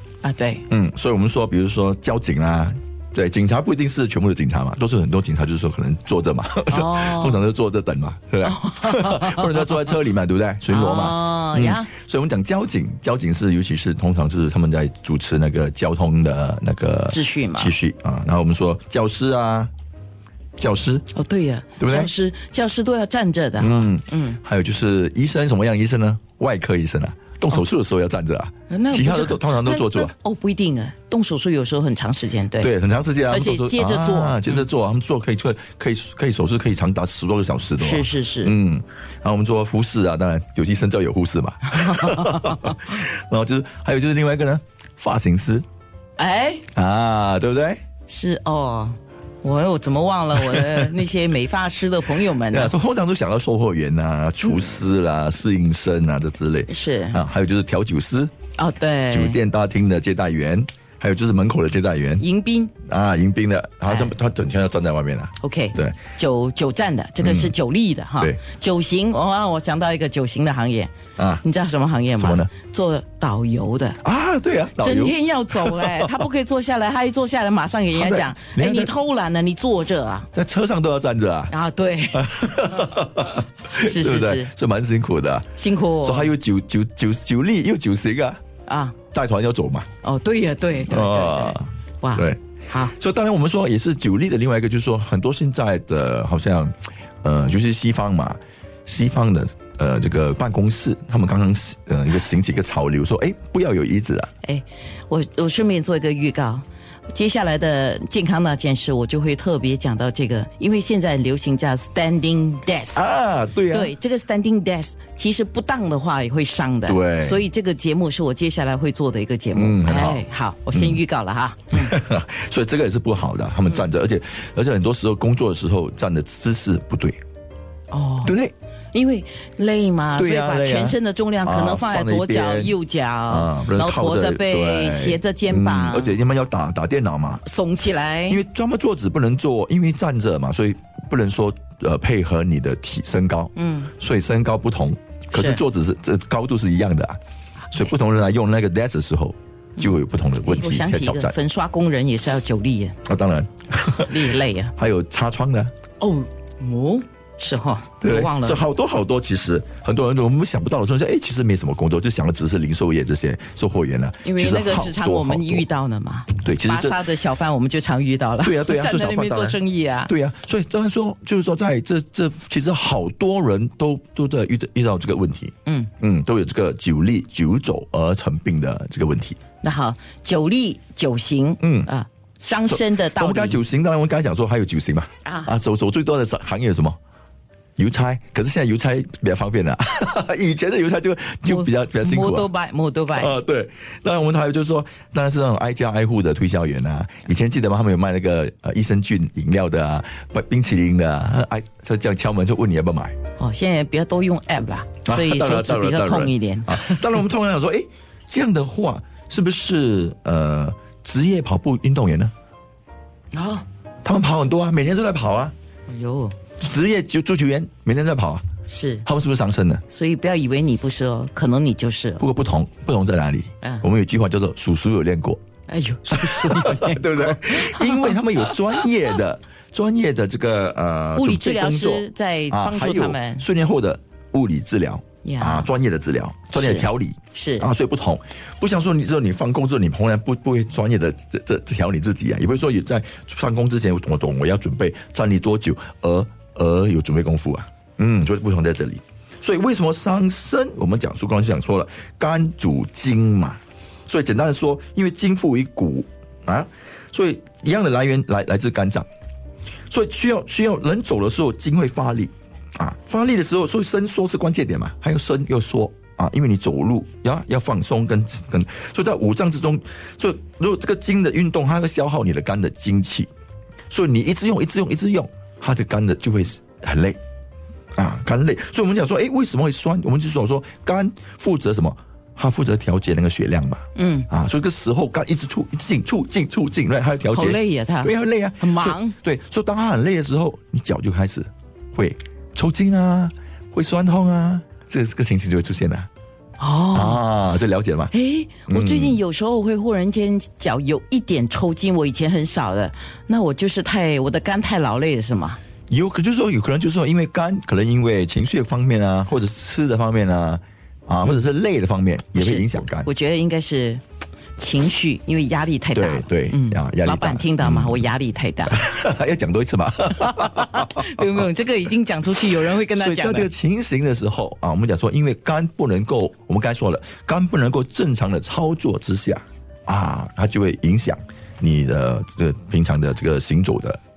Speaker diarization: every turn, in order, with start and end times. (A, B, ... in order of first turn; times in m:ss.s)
0:00.2-0:00.6 A
0:00.7-0:19.7 B
0:06.7-0:07.4 A
0:08.4-0:09.9 A
0:10.7-0:11.9 A
0:17.1-0:17.7 A
0:20.6-0:21.0 B
0:21.1-0:24.4 A
0:21.8-0:22.1 B
0:23.6-0:30.1 B
0:28.7-0:32.7 A
0:32.6-0:45.6 B
0:33.3-0:34.6 A
0:37.8-0:38.5 A
0:41.7-0:42.9 A
0:46.2-0:46.6 A
0:46.7-0:47.8 B
0:48.1-0:52.7 A
0:50.4-0:50.9 B
0:52.4-0:58.3 B
0:54.4-0:54.7 A
0:56.7-0:57.2 A
0:58.6-0:59.4 A
0:59.1-1:02.2 B
1:02.2-1:02.7 A
1:02.8-1:06.0 B
1:03.8-1:04.1 A
1:05.4-1:14.0 A
1:07.2-1:07.5 B
1:11.2-1:11.4 B
1:12.2-1:12.5 B
1:14.0-1:16.3 B
1:14.8-1:20.3 A
1:17.9-1:18.9 B
1:20.3-1:21.5 B
1:21.5-1:22.5 A
1:22.1-1:28.4 B
1:23.7-1:24.5 A
1:25.6-1:26.3 A
1:28.6-1:29.0 A
1:29.1-1:29.9 B
1:30.0-1:32.9 A
1:30.8-1:44.3 B
1:44.4-1:53.0 A
1:52.9-1:53.9 B
1:53.7-2:01.9 A
1:56.8-1:57.4 B
1:59.5-2:01.0 B
2:01.7-2:07.2 B
2:07.9-2:08.3 A
2:08.2-2:08.5 B
2:08.9-2:16.2 A
2:10.2-2:12.8 B
2:13.3-2:17.4 B
2:17.4-2:18.4 A
2:18.3-2:27.2 B
2:23.6-2:23.9 A
2:25.3-2:25.6 A
2:27.7-2:31.3 B
2:29.8-2:33.0 A
2:33.0-2:35.7 B
2:34.0-2:34.7 A
2:36.0-2:38.6 A
2:38.0-2:45.6 B
2:44.2-2:50.1 A
2:46.3-2:47.0 B
2:48.4-2:59.4 B
2:55.6-2:55.9 A
2:59.6-3:03.6 A
3:01.6-3:01.9 B
3:02.5-3:07.0 B
3:05.2-3:05.5 A
3:07.8-3:12.5 B
3:11.5-3:13.4 A
3:13.1-3:23.2 B
3:23.4-3:27.2 A
3:25.0-3:32.3 B
3:33.3-3:33.6 A
3:34.0-3:35.5 B
3:35.9-3:36.4 A
3:36.6-3:38.4 B
3:38.7-3:39.0 A
3:39.0-3:39.8 B
3:39.9-3:42.2 A
3:42.2-3:45.4 B
3:45.7-3:48.2 A
3:46.1-4:19.0 B
3:51.1-3:53.4 A
3:55.2-3:55.7 A
3:56.5-3:57.7 A
4:19.9-4:33.3 B
4:33.9-4:37.2 B
4:38.0-4:56.1 B
4:43.9-4:44.3 A
4:47.3-4:49.1 A
4:56.6-4:57.2 A
4:56.9-4:58.1 B
4:58.1-5:05.6 A
4:58.7-4:59.2 B
5:05.9-5:13.1 B
5:12.3-5:14.0 A
5:14.6-5:18.8 A
5:15.9-5:18.1 B
5:18.7-5:21.5 B
5:20.2-5:23.5 A
5:22.6-5:34.0 B